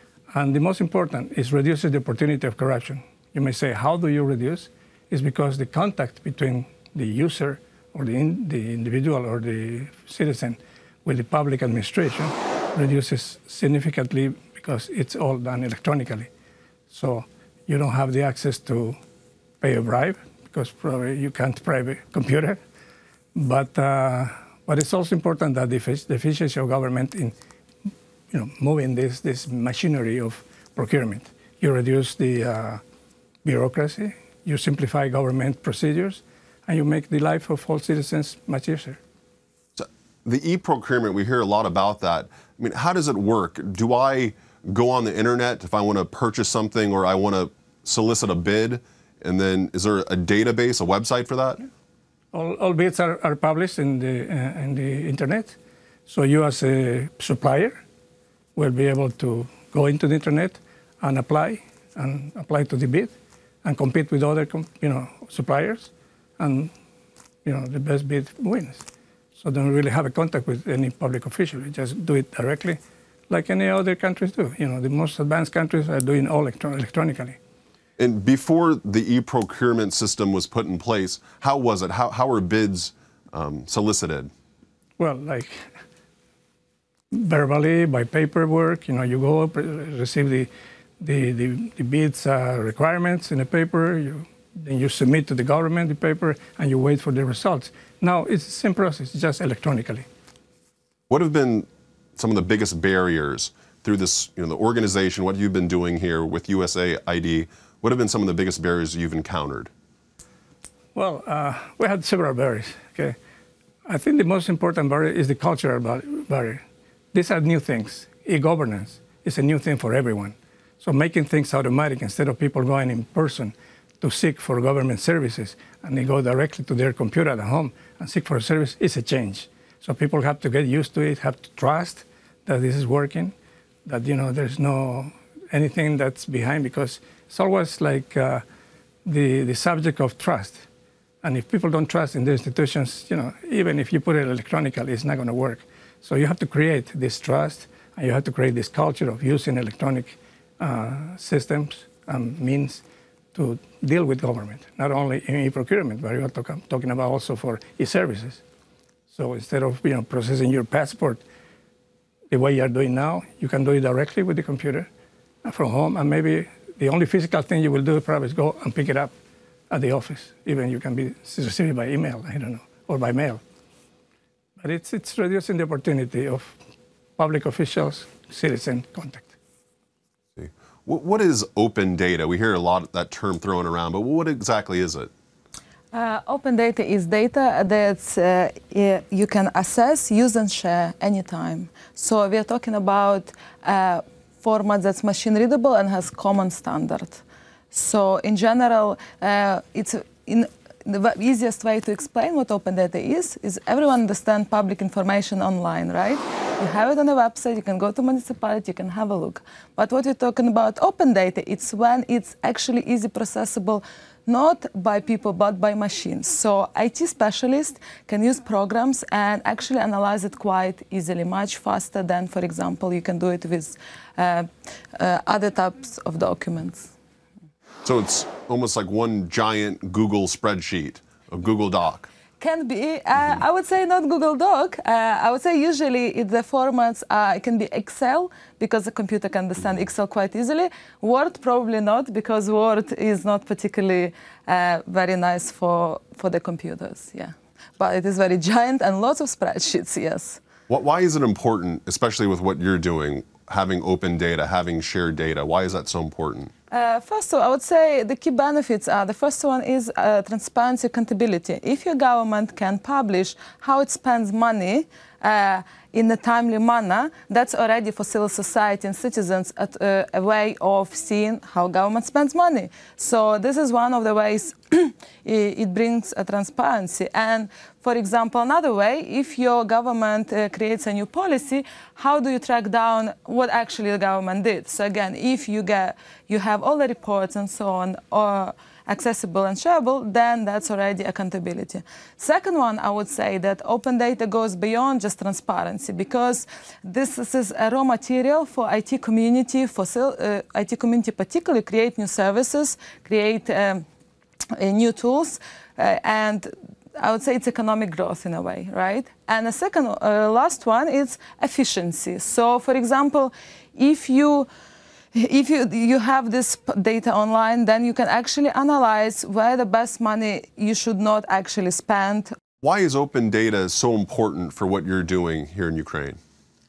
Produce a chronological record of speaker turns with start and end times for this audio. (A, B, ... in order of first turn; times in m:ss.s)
0:00.3-0:16.3 A
0:16.9-0:19.0 A
0:19.6-0:22.6 A
0:23.3-0:27.3 A
0:28.3-0:32.8 A
0:33.4-0:39.0 A
0:39.8-0:51.6 B
0:52.3-0:57.8 A
0:58.5-1:06.7 A
1:07.4-1:17.4 A
1:18.0-1:24.3 B
1:25.0-1:25.7 A
1:27.1-1:40.1 A
1:41.1-1:49.7 B
1:50.9-1:53.2 A
1:53.8-2:13.3 A
2:13.8-2:18.4 A
2:19.0-2:20.6 A
2:21.2-2:32.8 A
2:33.3-2:38.4 A
2:39.1-2:41.2 A
2:42.3-2:44.9 A
2:45.4-2:49.1 A
2:49.7-2:53.4 A
2:54.6-2:56.6 A
2:57.2-2:59.3 A
3:00.4-3:05.1 B
3:05.9-3:46.9 C
3:47.8-3:52.1 B
3:52.4-4:10.4 C
4:10.7-4:16.5 B
4:16.7-5:03.8 C
5:04.6-5:14.5 C
5:15.1-5:22.3 C
5:22.6-5:26.2 B